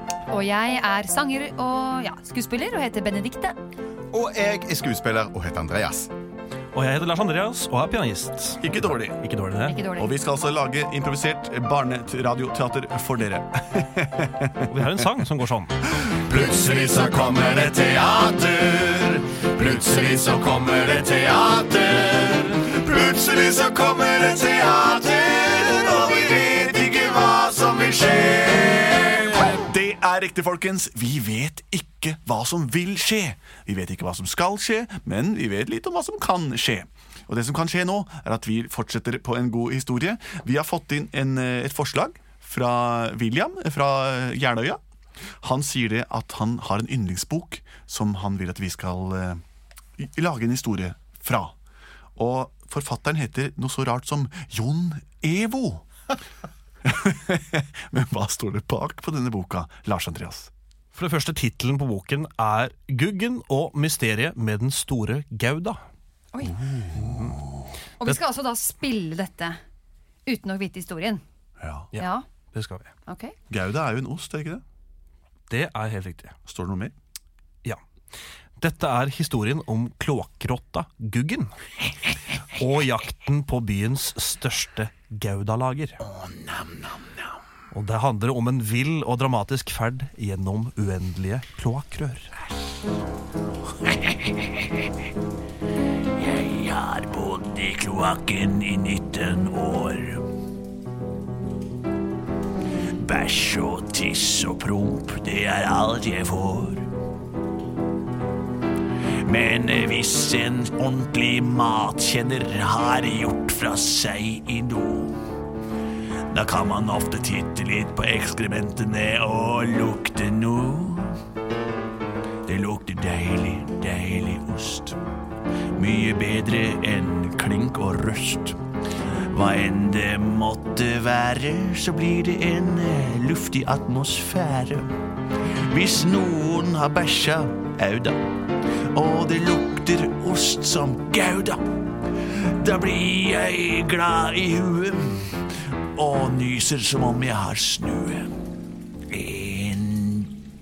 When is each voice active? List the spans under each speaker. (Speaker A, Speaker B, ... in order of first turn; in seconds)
Speaker A: 0.3-3.5, 9.7-10.1, 68.0-69.5, 70.3-71.2, 72.0-72.2, 73.1-73.3
Speaker B: 4.1-6.1, 16.3-29.0
Speaker C: 6.7-8.6, 9.1-9.9, 14.6-15.7, 60.9-65.8, 66.4-67.3, 71.9-72.9, 75.5-76.4, 78.6-81.5, 82.5-86.0, 87.7-92.3
Speaker D: 8.6-9.0, 9.9-14.4, 29.7-44.8, 45.4-49.4, 50.0-51.5, 52.1-55.8, 56.8-60.5, 73.5-74.6, 76.4-76.9
Speaker E: 29.4-33.1, 86.0-87.3, 93.9-94.7, 96.2-100.2, 103.0-106.9, 109.2-115.2, 116.3-121.2, 122.5-125.0, 125.8-128.6, 129.3-134.9, 135.7-138.2, 138.9-141.6, 142.3-148.3, 149.1-150.4